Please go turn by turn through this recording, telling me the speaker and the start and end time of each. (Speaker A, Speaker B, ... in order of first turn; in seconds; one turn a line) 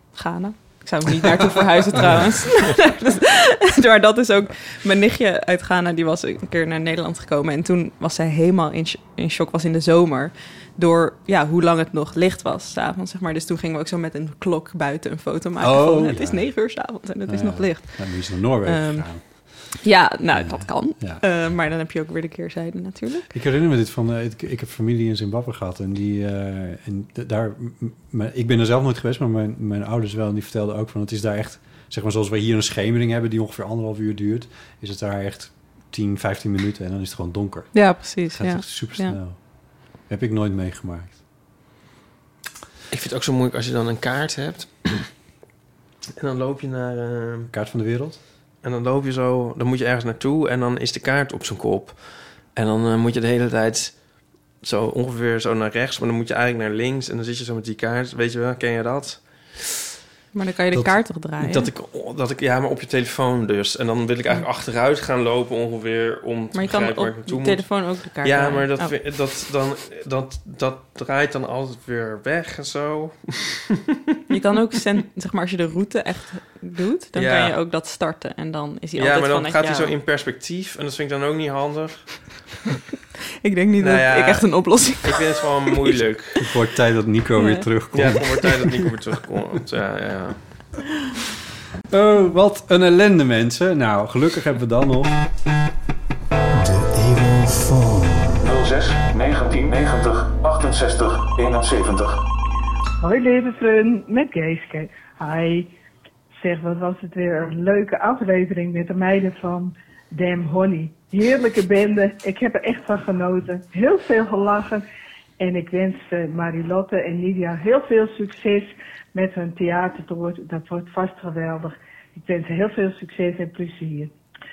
Speaker A: 0.1-23.3
Speaker B: 15.6-19.7
Speaker B: 20.3-21.2
Speaker B: 23.3-41.2
Speaker A: 37.7-39.2
Speaker C: 42.9-45.1
Speaker C: 46.2-47.5
Speaker B: 47.5-48.2
Speaker C: 48.6-52.0
Speaker C: 52.5-54.0
Speaker C: 54.6-59.6
Speaker A: 60.3-61.7
Speaker C: 61.4-73.8
Speaker A: 66.5-68.9
Speaker A: 74.3-79.9
Speaker C: 77.2-77.5
Speaker C: 79.0-82.3
Speaker A: 83.4-85.9
Speaker C: 83.8-86.5
Speaker B: 86.4-89.0
Speaker A: 87.4-87.7
Speaker C: 87.9-90.4
Speaker B: 91.9-95.2
Speaker B: 96.6-98.2
Speaker D: 98.4-102.2
Speaker E: 103.0-105.7
Speaker E: 106.4-114.8
Speaker E: 115.4-124.1